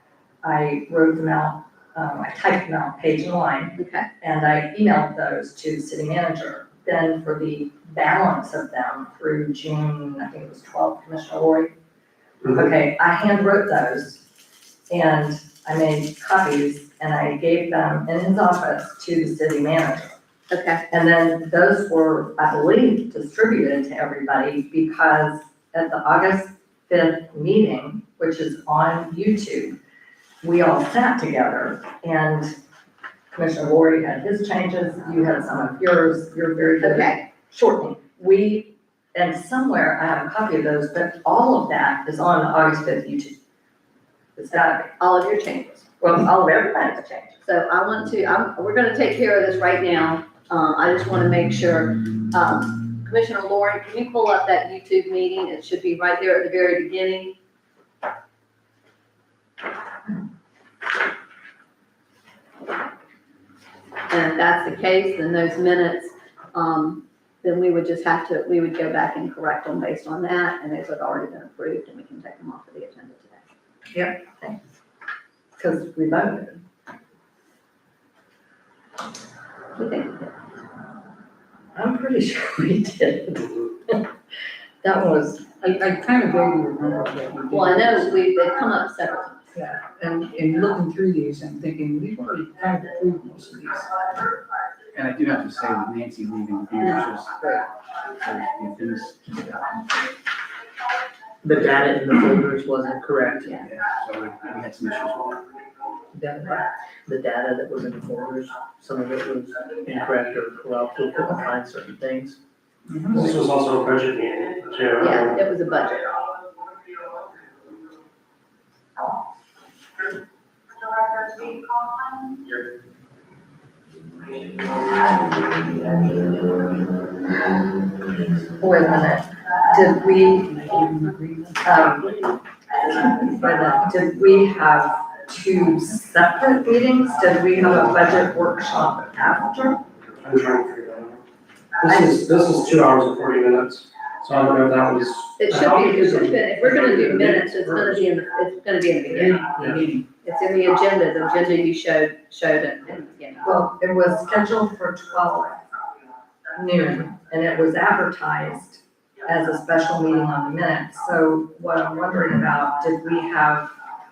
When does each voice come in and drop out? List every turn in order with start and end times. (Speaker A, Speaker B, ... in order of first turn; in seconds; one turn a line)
Speaker A: 0.4-11.7
Speaker B: 3.8-4.1
Speaker A: 12.4-14.2
Speaker A: 14.9-20.2
Speaker B: 20.5-20.8
Speaker A: 20.9-29.8
Speaker A: 30.4-32.5
Speaker A: 33.3-43.4
Speaker B: 36.8-37.2
Speaker A: 44.4-44.9
Speaker B: 44.5-45.9
Speaker A: 46.0-47.4
Speaker B: 47.4-57.3
Speaker B: 64.1-73.4
Speaker A: 73.9-74.6
Speaker A: 75.6-76.6
Speaker B: 79.8-80.3
Speaker A: 81.7-84.1
Speaker A: 84.8-85.4
Speaker C: 85.6-88.1
Speaker B: 87.5-89.5
Speaker C: 89.5-93.9
Speaker D: 94.9-97.3
Speaker D: 98.2-99.7
Speaker E: 101.4-103.6
Speaker D: 103.5-105.4
Speaker E: 106.1-112.4
Speaker C: 112.9-113.2
Speaker F: 113.1-115.3
Speaker B: 115.0-116.2
Speaker A: 128.6-130.6
Speaker C: 130.6-131.5
Speaker A: 131.6-132.2
Speaker A: 132.8-139.8
Speaker F: 140.2-141.2
Speaker F: 141.8-148.0
Speaker A: 141.8-142.2
Speaker B: 145.4-149.6
Speaker F: 149.6-149.8
Speaker B: 150.2-153.5
Speaker A: 153.4-155.6
Speaker A: 156.6-163.7